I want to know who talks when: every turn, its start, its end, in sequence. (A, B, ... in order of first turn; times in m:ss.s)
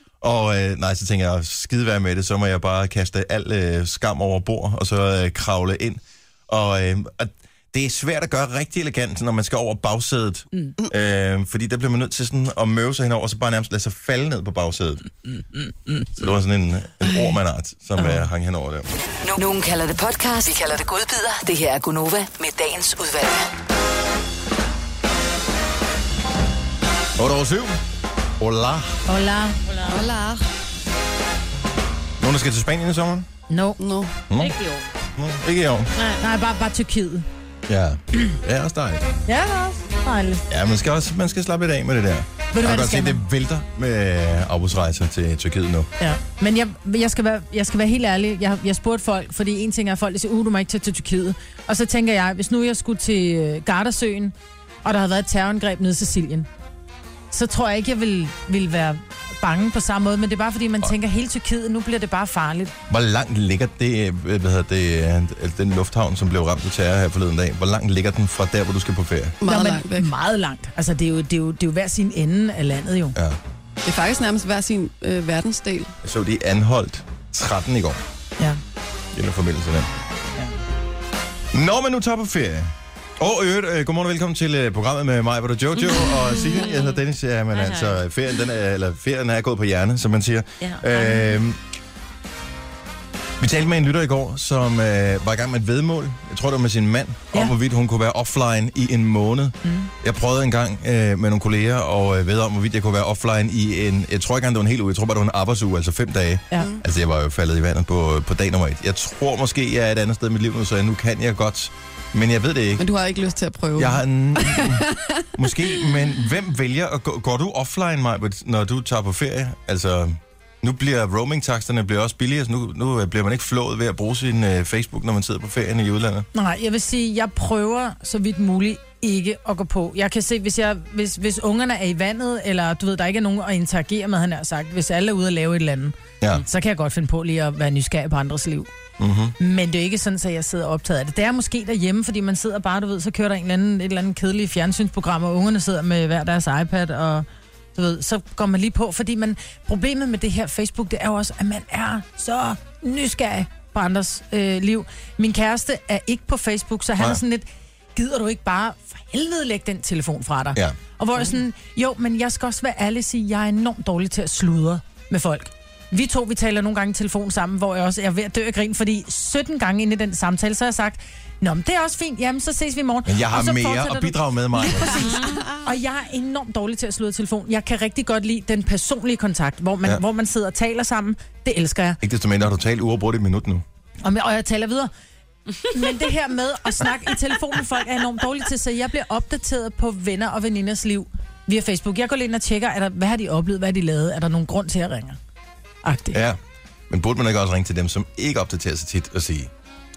0:00.2-0:15.1 A
0:16.2-0:18.9 A
0:18.0-0:18.2 B
0:19.2-0:23.5 C
0:27.2-0:27.8 A
0:28.4-0:29.0 A
0:29.1-0:29.6 B
0:29.6-0:30.1 D
0:29.9-0:30.4 E
0:32.2-0:33.3 A
0:33.5-0:33.8 B
0:33.8-0:34.1 E
0:34.3-0:34.5 A
0:34.4-0:34.8 D
0:35.2-0:35.9 A
0:36.0-0:36.2 D
0:36.2-0:37.2 B
0:37.7-0:39.2 A
0:39.2-0:40.5 B
0:40.5-0:45.9 A
0:42.5-0:43.2 B
0:46.0-0:56.5 B
0:57.3-1:02.7 B
1:02.9-1:09.4 A
1:09.4-1:10.1 E
1:09.4-1:13.2 B
1:13.8-1:15.9 E
1:16.0-1:18.0 A
1:19.1-1:19.9 A
1:21.5-1:31.6 A
1:25.8-1:27.0 D
1:27.5-1:28.0 D
1:30.6-1:31.3 D
1:33.4-1:52.9 A
1:39.6-1:39.9 B
1:52.8-1:55.5 E
1:53.8-2:06.3 A
2:06.3-2:18.7 B
2:19.0-2:19.4 A
2:19.4-3:02.0 B
2:53.0-2:55.1 A
3:02.0-3:03.6 A
3:04.0-3:04.9 B
3:05.7-3:15.2 B
3:15.8-3:16.2 B
3:16.1-3:16.4 A
3:16.9-3:19.5 A